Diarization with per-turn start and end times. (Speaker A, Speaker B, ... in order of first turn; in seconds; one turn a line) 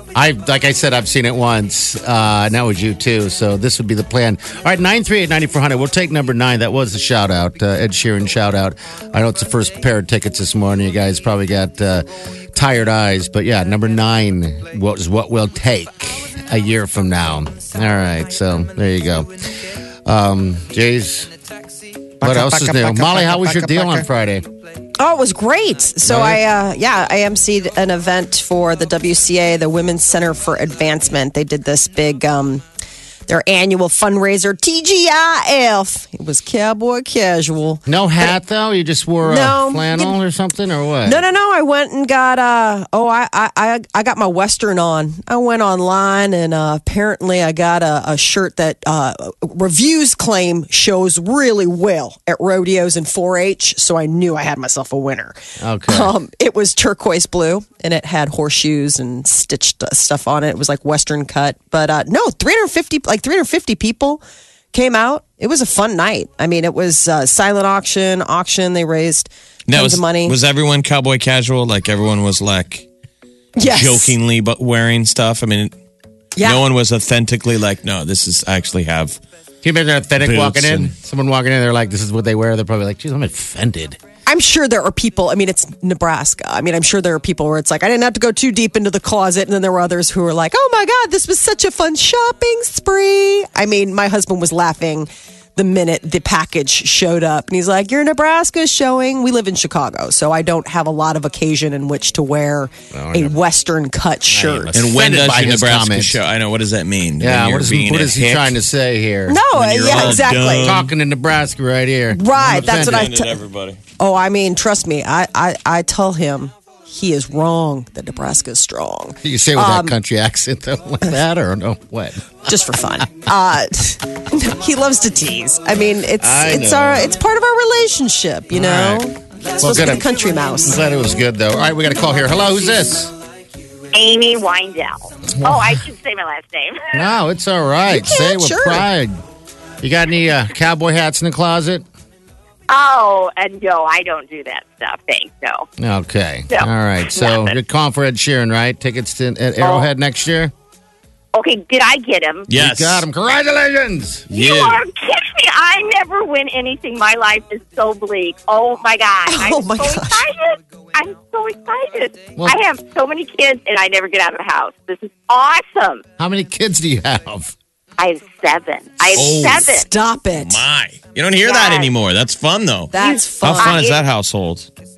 Speaker A: 0.1-21.3
Speaker A: 22.2-24.5
Speaker B: 22.2-24.1
Speaker C: 25.0-32.6
Speaker A: 26.1-26.4
Speaker C: 33.3-38.3
Speaker A: 37.9-41.2
Speaker C: 39.2-40.2
Speaker C: 41.0-64.2
Speaker A: 55.6-56.1
Speaker C: 64.7-70.4
Speaker B: 69.7-72.9
Speaker C: 73.6-74.1
Speaker B: 73.6-75.7
Speaker C: 76.4-76.6
Speaker B: 76.4-79.2
Speaker A: 79.6-84.0
Speaker B: 80.2-80.9
Speaker C: 84.3-104.7
Speaker A: 102.9-103.4
Speaker A: 104.3-106.2
Speaker B: 104.7-108.5
Speaker A: 107.2-113.1
Speaker C: 109.3-110.7
Speaker B: 109.5-110.9
Speaker C: 112.1-113.3
Speaker B: 112.5-113.8
Speaker C: 114.0-120.0
Speaker A: 119.2-122.2
Speaker C: 122.5-130.8
Speaker A: 126.2-127.1
Speaker A: 128.5-129.0
Speaker A: 129.6-130.1
Speaker A: 130.6-133.1
Speaker D: 133.9-137.0
Speaker A: 135.4-135.8
Speaker A: 136.9-139.2
Speaker C: 137.9-138.8
Speaker A: 139.8-141.8
Speaker D: 142.7-145.7
Speaker A: 145.8-150.5
Speaker D: 146.5-147.6
Speaker D: 149.6-149.9
Speaker D: 151.3-152.5
Speaker B: 152.5-153.1
Speaker A: 152.5-154.3
Speaker B: 154.3-154.8
Speaker D: 154.3-166.0
Speaker C: 159.3-160.2
Speaker A: 166.2-167.5
Speaker D: 168.0-169.9
Speaker B: 169.1-169.8
Speaker C: 169.7-170.6
Speaker B: 170.4-174.7
Speaker D: 171.4-171.9
Speaker C: 172.9-173.8
Speaker D: 173.0-174.0